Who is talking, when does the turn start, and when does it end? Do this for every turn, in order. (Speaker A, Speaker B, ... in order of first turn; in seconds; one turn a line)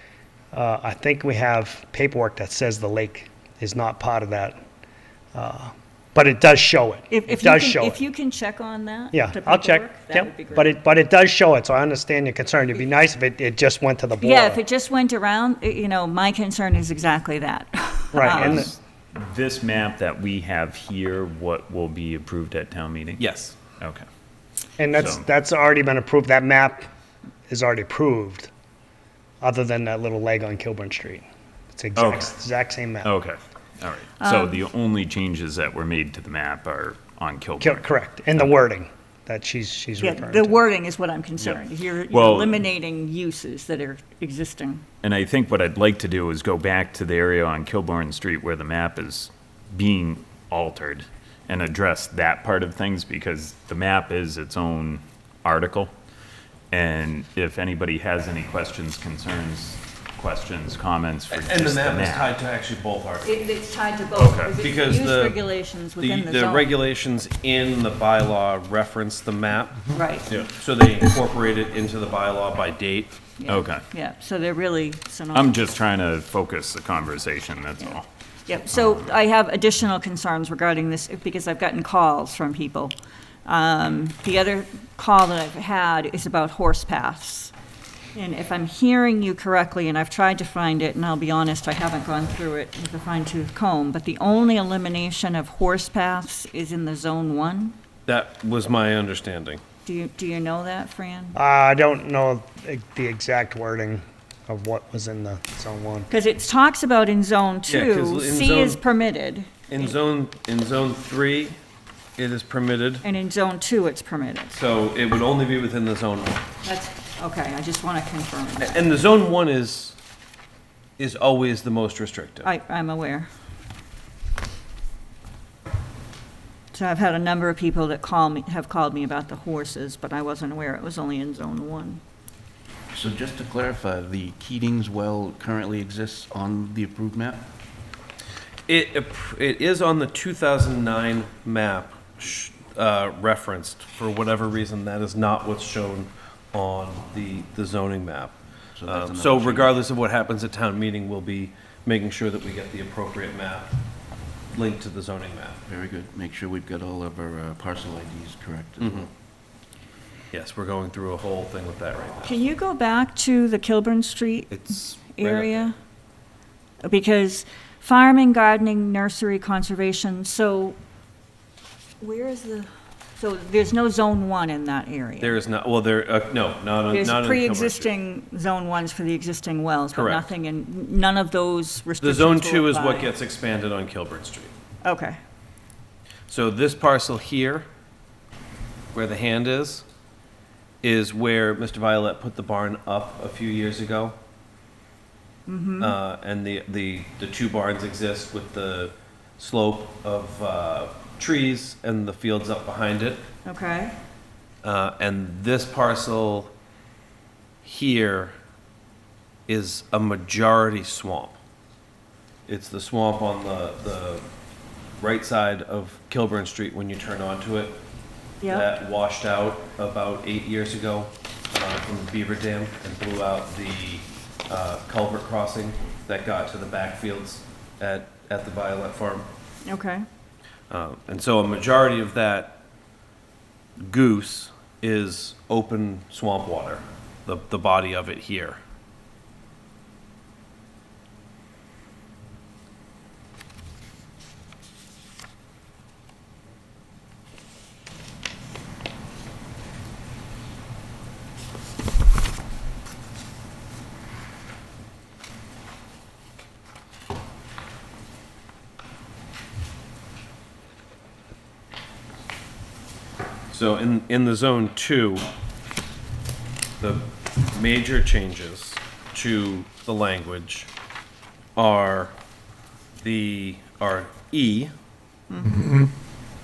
Speaker A: 0.5-4.6
Speaker A: 5.3-8.0
Speaker B: 7.1-10.8
Speaker A: 9.1-14.6
Speaker B: 14.2-18.7
Speaker A: 18.1-18.7
Speaker C: 18.2-23.2
Speaker D: 23.2-23.6
Speaker C: 23.8-24.1
Speaker A: 24.8-26.9
Speaker C: 24.9-25.2
Speaker A: 27.5-28.5
Speaker A: 29.4-33.1
Speaker C: 32.0-32.3
Speaker C: 33.0-38.5
Speaker B: 34.2-34.6
Speaker A: 37.6-40.6
Speaker B: 40.0-44.8
Speaker C: 41.4-42.6
Speaker C: 45.0-55.9
Speaker C: 56.7-62.4
Speaker D: 61.3-63.3
Speaker B: 63.2-66.8
Speaker C: 64.2-64.5
Speaker D: 64.6-65.4
Speaker D: 66.0-73.2
Speaker B: 69.9-70.4
Speaker B: 73.4-75.6
Speaker C: 73.5-73.8
Speaker C: 75.3-78.1
Speaker B: 78.5-83.0
Speaker C: 78.7-79.0
Speaker B: 83.5-87.5
Speaker B: 88.2-97.8
Speaker D: 98.1-99.6
Speaker B: 99.9-101.4
Speaker A: 101.4-106.1
Speaker B: 106.1-110.0
Speaker D: 107.7-108.8
Speaker D: 109.7-111.6
Speaker D: 112.2-113.0
Speaker B: 113.0-114.6
Speaker D: 114.5-116.4
Speaker B: 116.6-118.9
Speaker D: 118.6-120.0
Speaker D: 121.0-122.5
Speaker B: 122.4-123.3
Speaker B: 126.7-132.0
Speaker E: 132.9-137.4
Speaker D: 138.7-153.7
Speaker E: 148.8-149.8
Speaker D: 154.5-155.6
Speaker E: 155.7-159.1
Speaker D: 158.8-159.1
Speaker D: 160.3-162.4
Speaker B: 162.2-165.8
Speaker D: 164.5-165.7
Speaker B: 166.8-170.8
Speaker B: 172.0-175.4
Speaker D: 175.2-177.9
Speaker B: 176.9-183.1
Speaker D: 179.9-180.3
Speaker D: 182.0-184.5
Speaker B: 184.8-185.2
Speaker D: 186.3-187.7
Speaker D: 188.9-189.9
Speaker D: 190.8-194.2
Speaker B: 195.5-196.0
Speaker D: 195.8-203.2
Speaker B: 203.5-203.9
Speaker D: 204.6-206.5
Speaker D: 207.6-208.4
Speaker D: 209.5-211.4
Speaker D: 212.5-214.2
Speaker D: 215.0-217.8
Speaker D: 218.4-229.3
Speaker B: 229.7-230.1
Speaker D: 230.7-232.6
Speaker D: 233.8-238.6
Speaker D: 263.5-265.2
Speaker D: 266.8-270.7
Speaker D: 271.6-272.2
Speaker D: 273.0-274.7
Speaker B: 275.3-275.8